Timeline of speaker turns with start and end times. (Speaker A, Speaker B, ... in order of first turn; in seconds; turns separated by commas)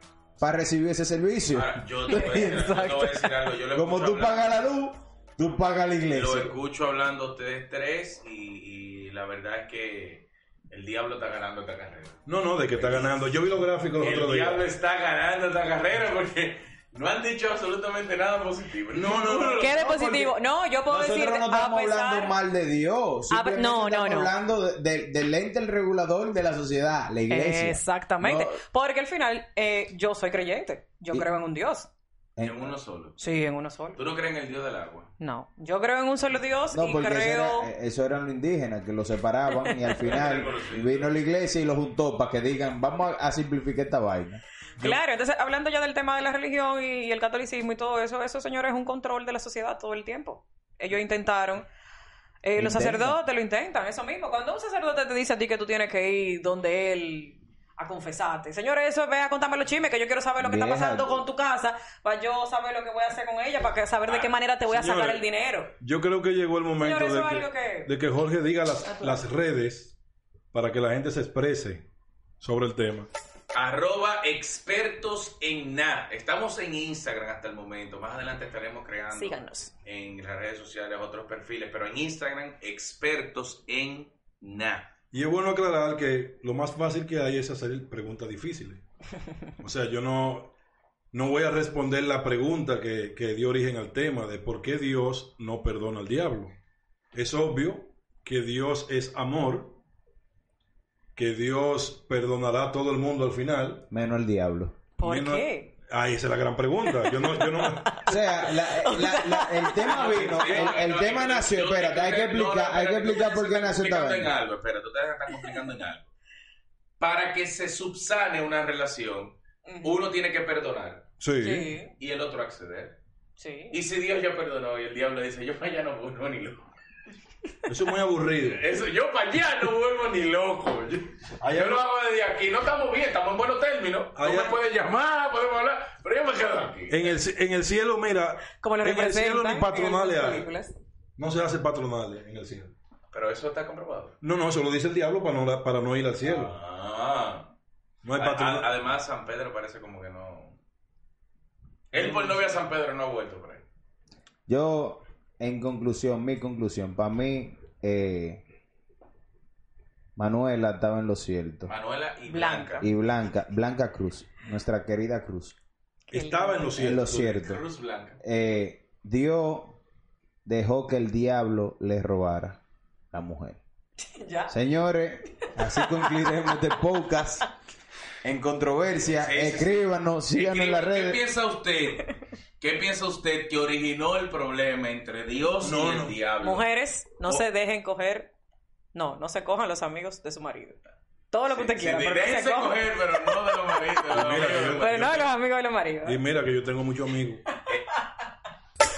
Speaker A: 0.4-1.8, Speaker B: 1.5-4.6, Speaker C: 2.1-3.3, Speaker A: 3.7-6.5, Speaker B: 6.1-13.3, Speaker D: 12.3-14.6, Speaker B: 14.0-19.8, Speaker D: 18.9-20.3, Speaker C: 19.6-22.3, Speaker A: 20.9-28.6, Speaker C: 23.3-24.3, Speaker C: 27.3-31.9, Speaker A: 32.4-32.8, Speaker B: 32.4-33.2, Speaker C: 33.2-34.0, Speaker B: 34.0-35.1, Speaker C: 35.2-37.7, Speaker A: 36.7-44.4, Speaker B: 40.0-41.1, Speaker C: 44.8-51.7, Speaker C: 52.4-65.7, Speaker A: 52.6-53.2, Speaker A: 60.4-61.2, Speaker B: 64.1-64.3, Speaker D: 64.7-65.2, Speaker D: 65.8-70.0, Speaker C: 66.8-67.9, Speaker C: 68.8-69.2, Speaker D: 70.5-71.9, Speaker D: 72.4-73.1, Speaker B: 73.5-84.9, Speaker C: 79.1-79.7, Speaker D: 85.1-88.8, Speaker D: 89.6-90.5, Speaker D: 91.1-96.5, Speaker D: 97.1-99.8, Speaker D: 101.2-103.9, Speaker A: 103.9-104.8, Speaker C: 105.0-105.7, Speaker D: 105.0-108.2, Speaker C: 107.0-110.6, Speaker A: 108.0-114.3, Speaker B: 109.8-116.1, Speaker B: 117.0-121.1, Speaker C: 119.7-120.0, Speaker D: 121.2-121.7, Speaker C: 121.4-121.9, Speaker B: 122.0-123.0, Speaker C: 123.4-123.8, Speaker B: 123.7-126.7, Speaker D: 127.7-128.7, Speaker B: 128.5-137.2, Speaker D: 131.4-131.8, Speaker D: 134.2-134.6, Speaker D: 136.9-140.5, Speaker C: 138.6-140.7, Speaker D: 141.2-142.7, Speaker B: 143.1-144.2, Speaker D: 144.2-146.6, Speaker B: 146.2-147.5, Speaker D: 148.0-148.7, Speaker B: 148.2-150.6, Speaker B: 151.9-153.7, Speaker A: 154.5-158.4, Speaker A: 160.2-161.7, Speaker B: 161.7-162.9, Speaker C: 162.3-162.8, Speaker A: 162.8-165.6, Speaker D: 166.1-167.4, Speaker C: 166.1-166.8, Speaker A: 166.7-167.6, Speaker B: 167.3-168.2, Speaker A: 168.2-169.8, Speaker A: 170.4-173.6, Speaker C: 174.0-174.6, Speaker A: 174.5-177.5, Speaker C: 175.8-176.2, Speaker A: 178.2-181.2, Speaker B: 179.1-186.7, Speaker D: 185.6-186.2, Speaker C: 186.4-188.3, Speaker C: 188.9-190.8, Speaker C: 191.3-192.8, Speaker B: 191.5-195.2, Speaker D: 194.1-195.2, Speaker C: 194.8-196.2, Speaker D: 196.0-197.4